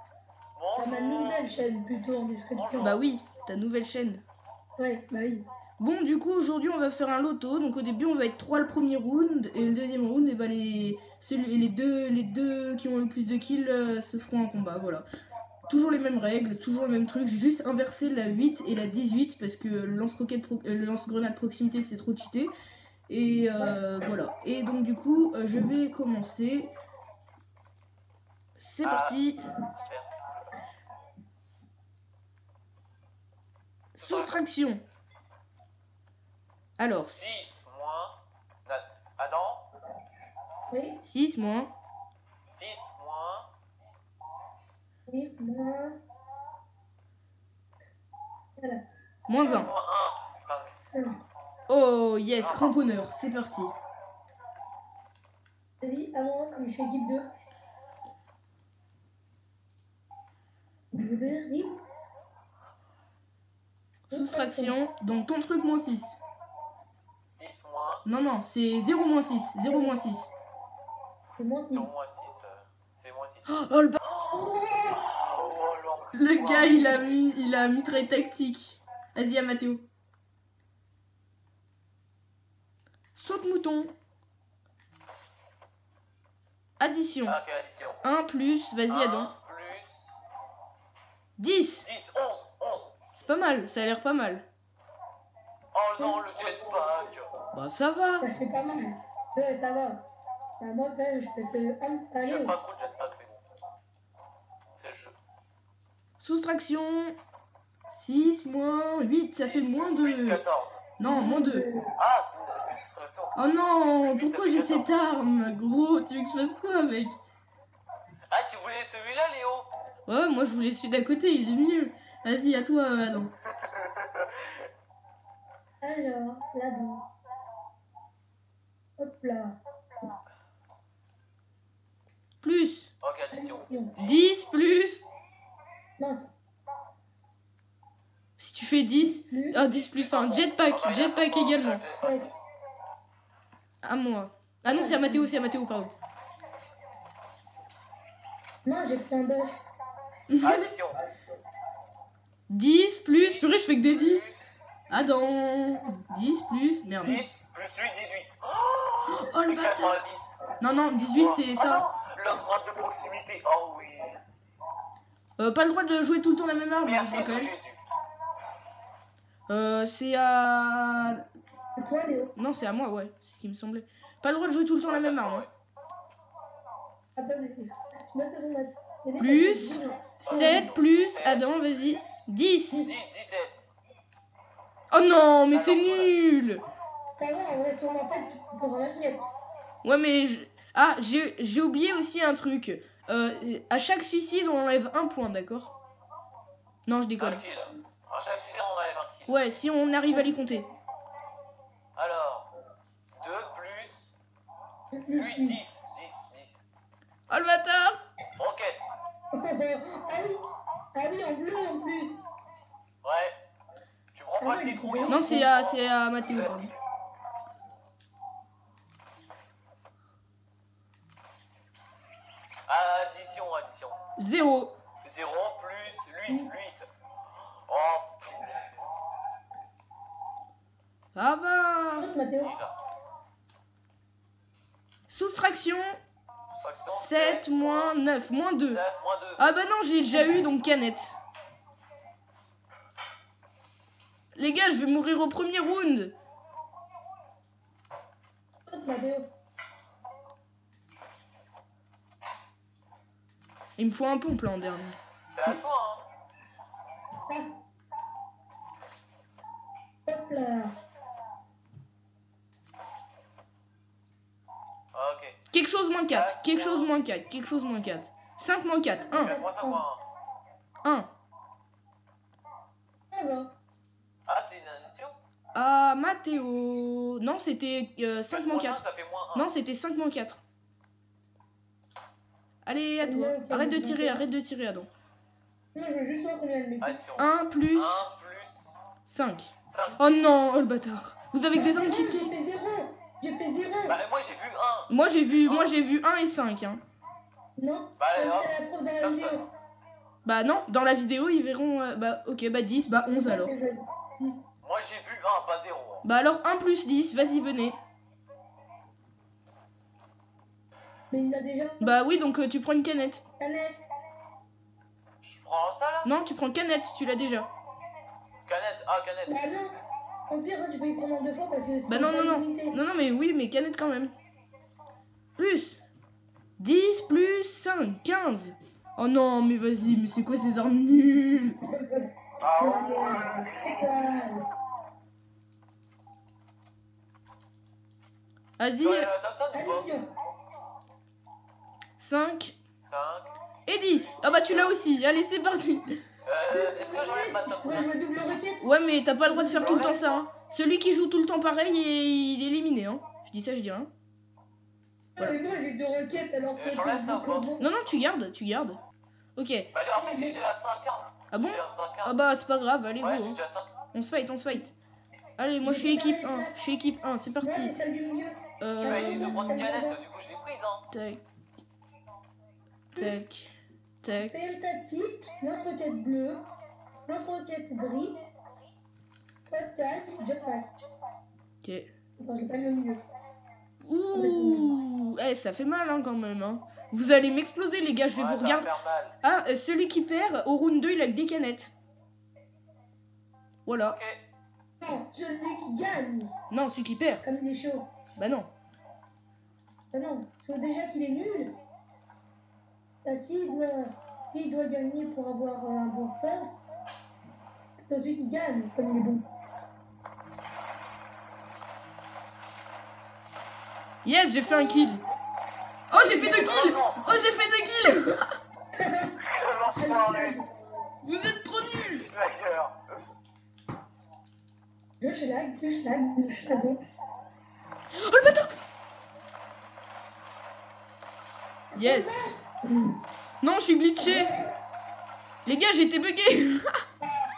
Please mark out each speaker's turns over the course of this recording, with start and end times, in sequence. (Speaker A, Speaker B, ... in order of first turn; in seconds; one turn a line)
Speaker A: 0.6-1.6
Speaker B: 0.8-2.9
Speaker A: 2.5-3.0
Speaker C: 2.8-4.2
Speaker B: 4.8-5.5
Speaker C: 5.8-15.1
Speaker C: 15.7-22.5
Speaker C: 23.1-26.7
Speaker C: 28.6-29.4
Speaker A: 28.8-29.2
Speaker A: 29.8-30.6
Speaker C: 34.0-34.8
Speaker A: 34.0-34.4
Speaker C: 36.8-37.3
Speaker A: 37.0-39.6
Speaker B: 40.7-41.0
Speaker C: 40.8-41.7
Speaker A: 42.5-43.5
Speaker B: 45.1-46.0
Speaker B: 48.6-49.6
Speaker C: 49.3-49.7
Speaker A: 49.4-50.7
Speaker B: 50.9-51.2
Speaker C: 51.7-53.8
Speaker A: 52.4-52.8
Speaker B: 55.8-57.3
Speaker B: 60.9-61.8
Speaker B: 64.1-64.8
Speaker C: 64.1-66.2
Speaker A: 67.2-68.0
Speaker C: 68.0-70.3
Speaker B: 69.7-70.0
Speaker B: 71.4-71.9
Speaker A: 71.7-77.0
Speaker C: 73.5-74.0
Speaker B: 74.3-75.0
Speaker C: 76.1-79.8
Speaker C: 83.2-83.9
Speaker C: 86.8-87.4
Speaker A: 87.3-88.0
Speaker C: 88.0-89.3
Speaker A: 88.9-90.2
Speaker C: 91.4-91.9
Speaker A: 91.8-92.9
Speaker C: 93.1-94.5
Speaker A: 95.7-97.3
Speaker B: 96.0-96.2
Speaker C: 97.5-98.3
Speaker B: 98.2-100.0
Speaker B: 100.6-102.5
Speaker A: 102.2-103.4
Speaker A: 104.8-105.2
Speaker C: 106.2-107.2
Speaker C: 107.9-110.4
Speaker A: 109.2-110.8
Speaker C: 111.0-111.7
Speaker B: 111.0-111.9
Speaker A: 112.0-113.4
Speaker C: 113.3-117.2
Speaker A: 113.9-114.9
Speaker A: 118.3-119.7
Speaker C: 120.1-123.3
Speaker A: 123.5-124.7
Speaker B: 125.8-127.1
Speaker B: 129.0-129.6
Speaker C: 132.4-132.9
Speaker A: 133.0-134.2
Speaker B: 133.3-133.9
Speaker C: 134.0-135.1
Speaker B: 136.0-136.3
Speaker C: 138.4-141.8
Speaker B: 139.3-139.6
Speaker A: 139.7-142.3
Speaker B: 142.0-142.3
Speaker C: 143.8-145.9
Speaker B: 144.7-145.3
Speaker B: 148.7-149.6
Speaker C: 150.3-150.7
Speaker A: 150.4-151.0
Speaker C: 152.5-154.4
Speaker A: 153.1-154.4
Speaker C: 154.9-157.2
Speaker A: 157.0-160.4
Speaker C: 159.1-160.0
Speaker C: 160.6-161.9
Speaker A: 161.0-164.2
Speaker C: 165.4-167.5
Speaker A: 166.8-167.8
Speaker C: 169.5-171.2
Speaker B: 171.8-172.3
Speaker C: 172.4-175.4
Speaker A: 174.9-175.5
Speaker B: 177.2-180.7
Speaker C: 179.2-182.9
Speaker A: 180.2-181.5
Speaker A: 182.7-183.6
Speaker C: 184.9-186.6
Speaker A: 185.5-186.1
Speaker B: 187.2-189.3
Speaker C: 189.8-195.7
Speaker C: 196.9-197.4
Speaker A: 197.2-199.3
Speaker C: 199.3-200.7
Speaker A: 202.0-202.5
Speaker A: 203.2-204.1
Speaker B: 204.9-205.6
Speaker A: 205.1-206.6
Speaker C: 207.3-208.0
Speaker A: 208.4-208.8
Speaker B: 209.3-212.2
Speaker A: 213.0-213.4
Speaker A: 214.1-215.7
Speaker B: 214.4-215.5
Speaker C: 215.1-216.7
Speaker A: 216.2-216.7
Speaker A: 222.7-224.0
Speaker C: 224.2-224.7
Speaker A: 225.0-226.9
Speaker A: 227.7-228.8
Speaker C: 231.2-232.1
Speaker B: 231.9-232.6
Speaker A: 232.4-232.8
Speaker C: 235.1-236.0
Speaker A: 236.6-237.9
Speaker C: 236.9-238.8
Speaker A: 238.7-239.4
Speaker C: 239.4-241.2
Speaker C: 244.3-246.2
Speaker B: 248.7-249.3
Speaker C: 253.8-255.6
Speaker A: 255.2-256.0
Speaker B: 260.1-260.8
Speaker A: 264.9-265.4
Speaker C: 265.5-269.4
Speaker A: 266.1-266.9
Speaker B: 269.1-269.8
Speaker A: 269.1-270.0
Speaker C: 270.8-271.1
Speaker B: 273.1-273.5
Speaker A: 274.3-275.2
Speaker C: 275.6-280.4
Speaker A: 278.3-279.5
Speaker C: 282.6-284.9
Speaker B: 283.0-284.2
Speaker B: 285.8-287.0
Speaker A: 286.8-288.7
Speaker C: 287.2-288.1
Speaker C: 289.1-292.3
Speaker A: 289.7-290.2
Speaker B: 291.6-294.0
Speaker A: 293.9-294.9
Speaker C: 294.9-296.8
Speaker A: 295.4-295.7
Speaker B: 297.6-299.5
Speaker A: 298.0-299.5
Speaker C: 300.2-303.5
Speaker B: 303.2-304.4
Speaker A: 304.6-306.0
Speaker C: 306.0-307.8
Speaker B: 311.1-311.9
Speaker C: 311.8-313.2
Speaker B: 313.4-313.9
Speaker A: 315.2-316.1
Speaker C: 316.1-317.5
Speaker A: 318.5-319.4
Speaker B: 319.3-319.8
Speaker B: 320.3-322.8
Speaker C: 321.9-324.1
Speaker C: 325.4-325.8
Speaker C: 326.6-331.6
Speaker B: 331.7-334.5
Speaker A: 332.4-334.1
Speaker C: 338.6-339.1
Speaker A: 338.8-339.9
Speaker B: 339.5-340.1
Speaker C: 342.0-342.6
Speaker A: 342.8-343.3
Speaker C: 343.7-346.0
Speaker A: 344.2-344.7
Speaker A: 346.2-347.9
Speaker B: 346.5-348.7
Speaker C: 348.6-353.9
Speaker B: 349.2-349.8
Speaker A: 349.5-350.2
Speaker B: 355.2-357.6
Speaker A: 356.6-357.5
Speaker C: 357.6-358.8
Speaker C: 359.4-359.7
Speaker A: 359.7-362.1
Speaker B: 359.9-360.4
Speaker C: 361.3-363.4
Speaker A: 363.0-363.7
Speaker C: 363.9-364.7
Speaker C: 365.4-367.7
Speaker B: 365.6-366.6
Speaker B: 367.4-370.0
Speaker C: 368.6-369.4
Speaker A: 368.8-370.9
Speaker C: 370.9-371.2
Speaker C: 372.9-374.5
Speaker B: 374.1-376.4
Speaker B: 377.1-378.2
Speaker B: 379.5-380.7
Speaker C: 381.6-381.9
Speaker B: 382.2-383.0
Speaker C: 383.8-388.7
Speaker B: 384.1-384.8
Speaker A: 388.1-389.1
Speaker C: 389.2-391.7
Speaker C: 393.7-394.0
Speaker A: 393.9-394.2
Speaker B: 394.8-396.3
Speaker C: 396.5-397.2
Speaker B: 397.2-397.9
Speaker C: 398.2-398.5
Speaker B: 399.9-401.6
Speaker B: 403.0-406.5
Speaker B: 407.9-409.3
Speaker C: 414.1-415.0
Speaker B: 414.5-414.9
Speaker C: 415.9-418.4
Speaker B: 415.9-416.6
Speaker A: 416.2-417.2
Speaker B: 418.8-419.2
Speaker A: 419.2-420.4
Speaker B: 419.8-420.5
Speaker C: 421.0-422.1
Speaker A: 421.9-422.8
Speaker B: 425.0-426.8
Speaker C: 427.9-428.5
Speaker B: 431.7-433.0
Speaker C: 431.8-432.2
Speaker C: 433.4-434.3
Speaker B: 434.0-434.5
Speaker C: 435.5-436.8